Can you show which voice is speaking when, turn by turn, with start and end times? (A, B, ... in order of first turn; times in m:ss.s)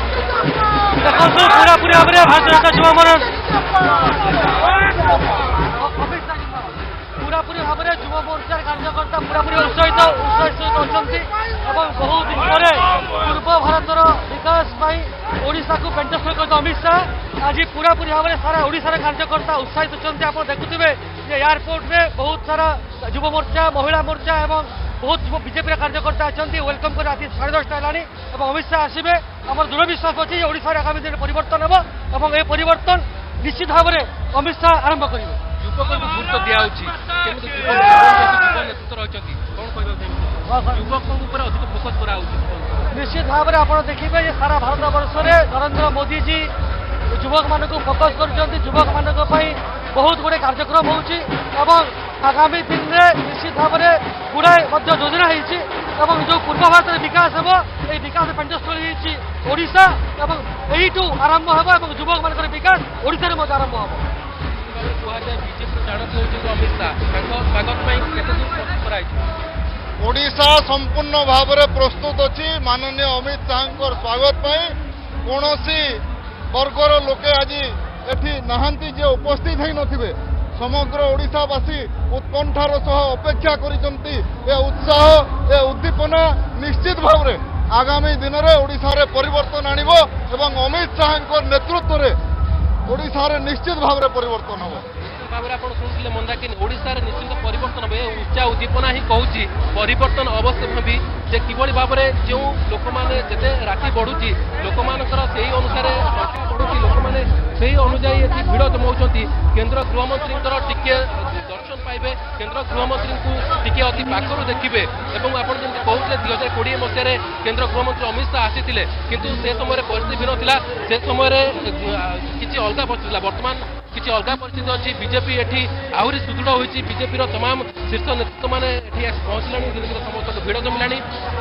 0:01.0-0:03.3 A
0:05.8-0:35.4 A
0:35.6-0:42.9 B
0:40.5-0:40.8 A
0:42.9-0:46.5 A
0:47.1-1:04.1 A
1:04.7-1:09.2 B
1:10.0-1:14.7 C
1:15.3-1:15.8 C
1:16.5-1:32.2 C
1:32.9-1:34.8 C
1:35.1-2:11.0 B